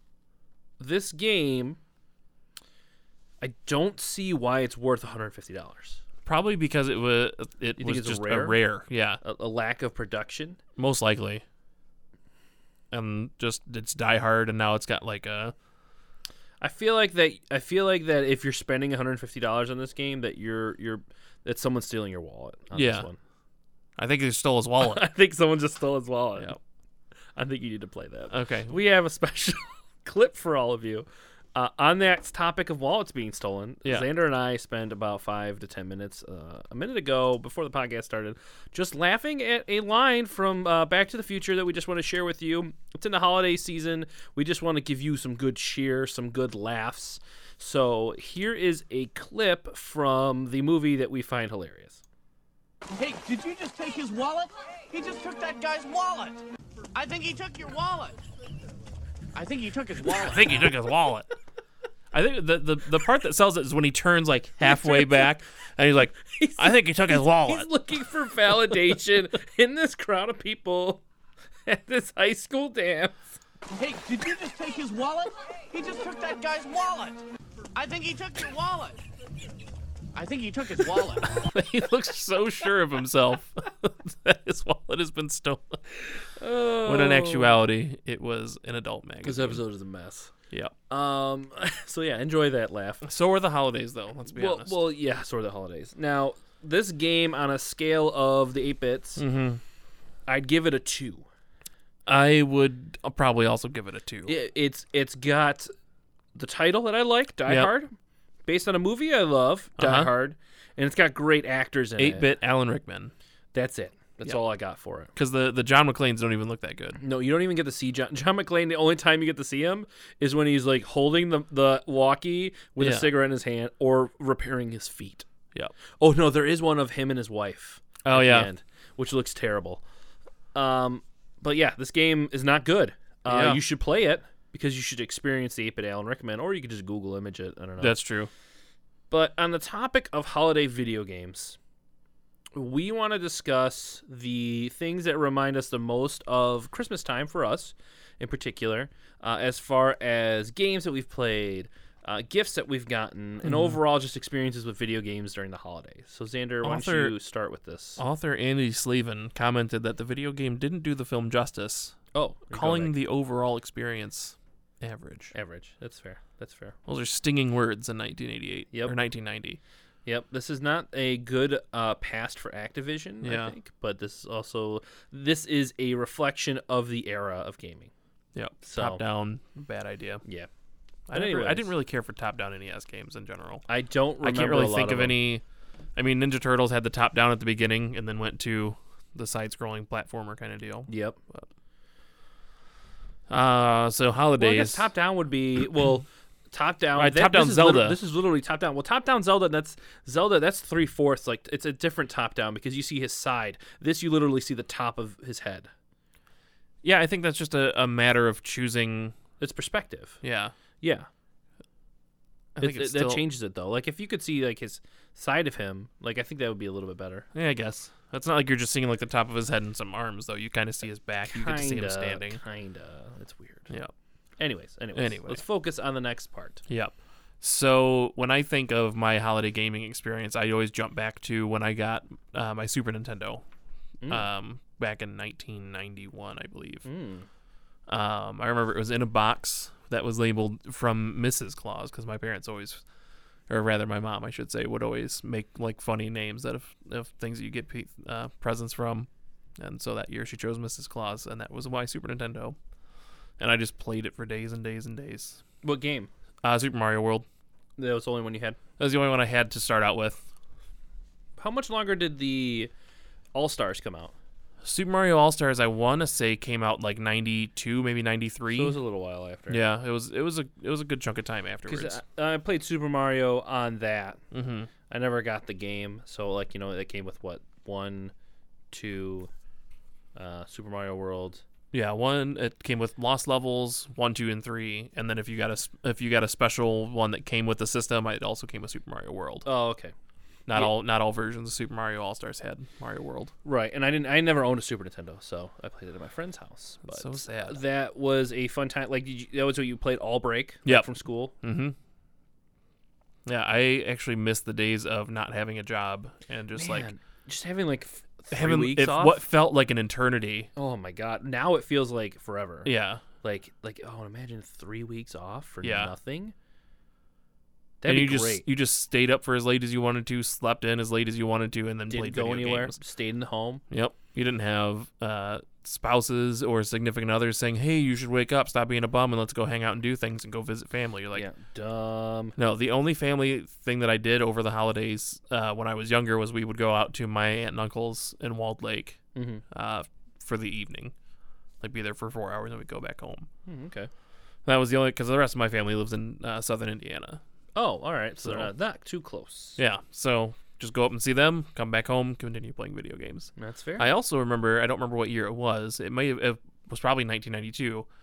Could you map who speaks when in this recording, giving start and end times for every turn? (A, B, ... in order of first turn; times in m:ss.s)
0:00.8-0:01.8 A
0:03.4-0:06.0 A
0:06.2-0:09.2 B
0:07.8-0:08.6 A
0:09.2-0:10.6 A
0:10.8-0:11.4 B
0:12.9-0:15.5 B
0:16.6-0:23.2 A
0:22.8-0:23.1 B
0:24.0-0:25.0 B
0:24.8-0:26.6 A
0:27.4-0:52.0 A
0:28.3-0:28.8 B
0:52.9-0:56.4 C
0:56.9-0:58.2 C
0:59.3-1:00.7 C
1:00.1-1:01.3 B
1:02.1-1:07.7 B
1:04.6-1:05.3 A
1:06.2-1:11.0 A
1:11.7-1:13.2 A
1:13.7-1:17.2 C
1:17.8-1:19.0 C
1:20.1-1:21.4 C
1:21.2-1:26.2 B
1:26.4-1:27.6 A
1:26.8-1:29.6 B
1:29.2-1:30.3 A
1:30.9-1:33.0 A
1:33.0-1:34.8 B
1:34.3-1:39.2 A
1:39.2-1:39.6 B
1:40.3-1:41.3 A
1:42.1-1:44.3 B
1:44.3-1:45.7 A
1:46.4-1:47.9 A
1:47.5-1:47.7 B
1:48.5-1:52.4 A
1:49.8-1:50.1 B
1:52.0-1:53.1 B
1:53.5-1:55.1 A
1:55.2-1:57.0 B
1:57.0-2:05.3 A
2:02.8-2:03.1 B
2:06.0-2:09.8 A
2:08.0-2:08.5 B
2:10.5-2:18.0 A
2:13.3-2:13.6 B
2:17.8-2:18.3 B
2:19.1-2:21.6 A
2:22.6-2:38.0 A
2:33.4-2:33.8 B
2:36.6-2:37.2 B
2:38.0-2:42.0 B
2:42.1-2:42.9 A
2:42.5-2:45.3 B
2:45.3-2:46.8 A
2:46.9-2:49.6 B
2:50.1-2:57.9 A
2:53.2-2:53.6 B
2:58.4-3:00.2 B
2:58.6-2:59.0 A
3:00.2-3:00.5 A
3:01.1-3:03.6 B
3:01.1-3:01.7 A
3:03.7-3:05.2 A
3:04.2-3:05.4 B
3:06.0-3:11.5 B
3:10.9-3:11.2 A
3:13.3-3:14.9 B
3:14.4-3:25.7 A
3:17.0-3:18.0 B
3:26.8-3:29.2 B
3:29.4-3:30.2 A
3:30.2-3:30.5 B
3:30.8-3:31.1 A
3:32.6-3:33.2 B
3:32.6-3:37.3 A
3:37.3-3:42.4 B
3:41.3-3:43.7 A
3:44.4-3:46.6 A
3:45.0-3:45.4 B
3:46.7-3:53.4 B
3:54.0-3:54.3 A
3:54.1-3:56.9 B
3:56.8-3:57.3 A
3:57.9-4:02.8 B
4:03.5-4:12.6 B
4:13.4-4:15.4 B
4:15.6-4:16.1 A
4:16.4-4:17.3 B
4:17.8-4:18.6 A
4:18.8-4:20.2 B
4:21.4-4:22.7 A
4:23.3-4:24.1 A
4:24.6-4:28.8 B
4:28.5-4:29.6 A
4:29.5-4:32.0 B
4:31.7-4:34.2 A
4:34.3-4:34.7 B
4:34.9-4:38.1 A
4:38.7-4:39.3 A
4:40.2-4:41.4 A
4:41.7-4:49.5 B
4:49.4-4:49.9 A
4:50.5-4:53.3 B
4:53.4-5:01.3 A
4:56.9-4:57.6 B
5:01.4-5:01.8 B
5:03.3-5:06.9 B
5:06.5-5:09.2 A
5:08.3-5:10.5 B
5:10.6-5:16.3 A
5:12.6-5:13.0 B
5:15.6-5:15.9 B
5:17.8-5:18.4 A
5:17.9-5:22.8 B
5:21.9-5:23.6 A
5:23.7-5:31.2 B
5:31.1-5:32.4 A
5:32.4-5:39.0 B
5:39.2-5:39.4 A
5:39.5-5:40.9 B
5:41.6-5:43.3 B
5:43.5-5:43.9 A
5:44.4-5:47.2 B
5:47.6-5:49.6 A
5:48.2-5:48.5 B
5:49.6-5:57.9 B
5:53.4-5:53.9 A